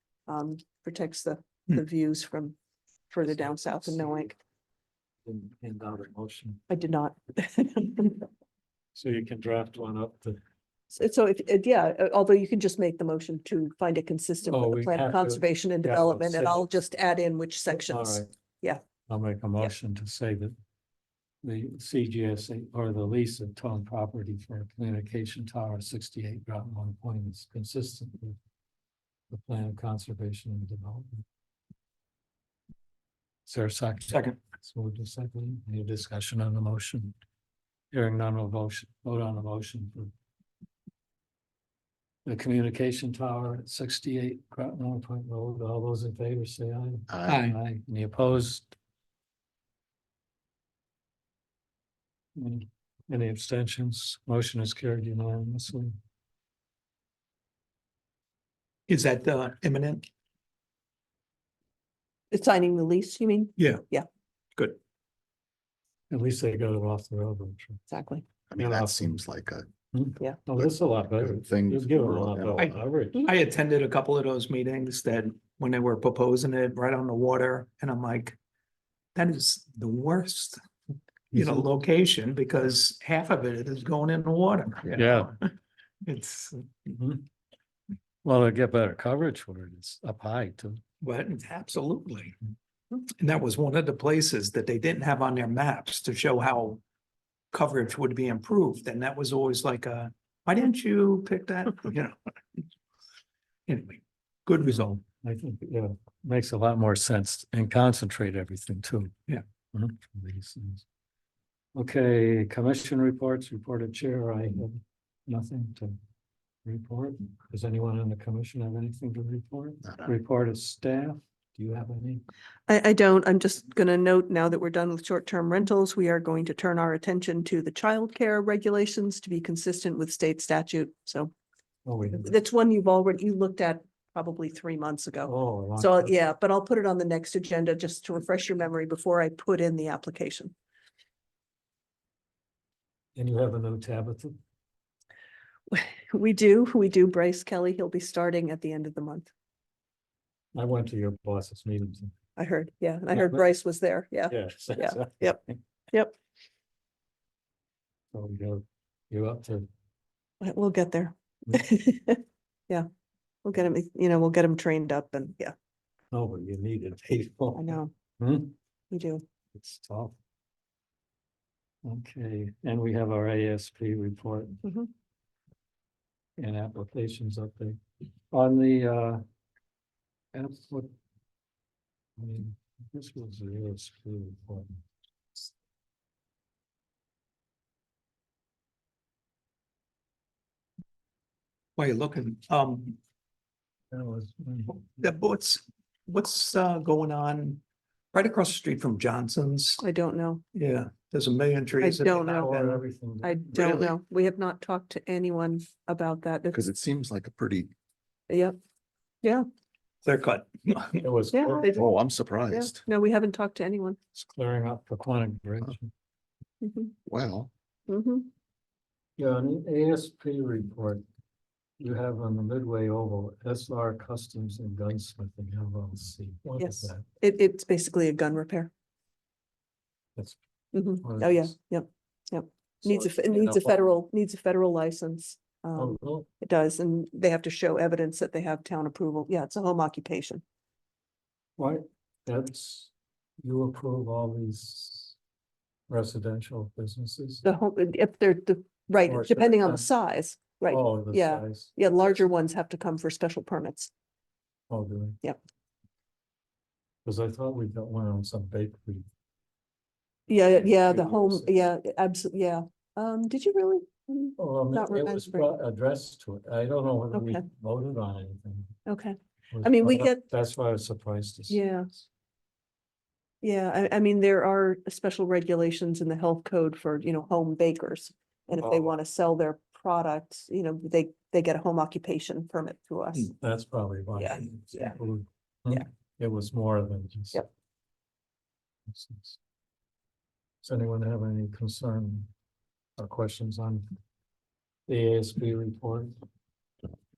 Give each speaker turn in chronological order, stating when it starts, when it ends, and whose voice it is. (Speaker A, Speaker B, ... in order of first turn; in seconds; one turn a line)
Speaker A: 0.3-2.5
Speaker A: 3.1-4.3
Speaker B: 3.3-4.3
Speaker B: 5.2-6.6
Speaker A: 6.7-8.2
Speaker B: 8.9-10.4
Speaker A: 10.9-18.8
Speaker B: 14.5-16.7
Speaker B: 17.7-18.3
Speaker B: 19.1-20.5
Speaker B: 21.4-28.4
Speaker B: 29.3-31.2
Speaker B: 33.5-37.1
Speaker C: 34.1-34.4
Speaker B: 37.9-40.1
Speaker B: 42.2-48.7
Speaker D: 47.1-47.4
Speaker C: 47.3-47.6
Speaker B: 52.4-55.9
Speaker C: 58.9-60.0
Speaker A: 62.3-64.0
Speaker C: 63.6-63.8
Speaker B: 66.1-67.8
Speaker A: 67.9-68.2
Speaker D: 68.5-69.7
Speaker B: 68.5-69.2
Speaker B: 69.9-73.3
Speaker D: 70.5-72.8
Speaker C: 72.6-78.4
Speaker C: 79.1-80.6
Speaker C: 81.3-85.3
Speaker B: 81.3-81.6
Speaker B: 84.9-85.3
Speaker C: 86.0-87.0
Speaker B: 87.0-87.2
Speaker B: 88.2-90.8
Speaker C: 91.0-92.3
Speaker C: 93.0-96.8
Speaker C: 97.5-102.6
Speaker C: 103.7-105.0
Speaker B: 104.6-109.1
Speaker B: 109.7-110.8
Speaker B: 111.7-116.0
Speaker B: 116.6-122.2
Speaker D: 119.8-120.2
Speaker A: 122.7-131.3
Speaker B: 131.8-132.4
Speaker A: 132.1-140.5
Speaker B: 135.2-136.3
Speaker B: 143.2-144.3
Speaker A: 145.7-149.3
Speaker B: 150.5-152.1
Speaker A: 152.4-156.1
Speaker B: 153.1-153.4
Speaker B: 154.3-155.6
Speaker B: 158.1-159.7
Speaker A: 160.4-162.9
Speaker A: 163.4-165.5
Speaker B: 166.1-168.5
Speaker A: 167.5-167.9
Speaker A: 168.9-169.2
Speaker B: 169.5-170.1
Speaker B: 171.8-174.6
Speaker A: 174.6-174.9
Speaker B: 176.4-179.2
Speaker B: 180.3-180.9
Speaker B: 182.2-184.8
Speaker C: 191.8-193.0
Speaker B: 193.9-195.1
Speaker C: 195.0-197.6
Speaker C: 198.1-199.8
Speaker A: 199.8-200.4
Speaker C: 200.5-202.8
Speaker A: 201.8-202.5
Speaker B: 202.3-203.8
Speaker A: 203.2-206.6
Speaker D: 206.5-207.7
Speaker A: 208.3-208.6
Speaker C: 210.0-211.1
Speaker B: 211.0-211.9
Speaker A: 211.3-211.8
Speaker D: 211.7-212.8
Speaker A: 212.5-214.0
Speaker B: 214.2-215.9
Speaker A: 216.6-216.9
Speaker D: 217.1-217.5
Speaker A: 217.9-218.3
Speaker B: 219.2-221.0
Speaker B: 221.8-227.0
Speaker A: 226.6-228.7
Speaker A: 230.7-240.4
Speaker B: 230.9-231.5
Speaker B: 232.8-233.9
Speaker B: 235.7-236.3
Speaker B: 241.6-242.9
Speaker B: 243.4-245.1
Speaker B: 245.9-247.4
Speaker A: 247.4-253.9
Speaker B: 249.1-249.8
Speaker B: 250.7-251.7
Speaker B: 254.7-255.2
Speaker B: 257.0-259.1
Speaker A: 260.3-265.5
Speaker B: 260.6-261.5
Speaker B: 264.4-268.8
Speaker A: 267.1-267.4
Speaker A: 268.9-270.2
Speaker B: 269.5-272.0
Speaker A: 271.5-271.9
Speaker A: 273.4-283.3
Speaker B: 278.6-278.9
Speaker B: 283.4-287.4
Speaker A: 284.1-285.0
Speaker B: 288.9-289.4
Speaker B: 290.6-292.3
Speaker B: 293.0-293.8
Speaker B: 294.9-296.1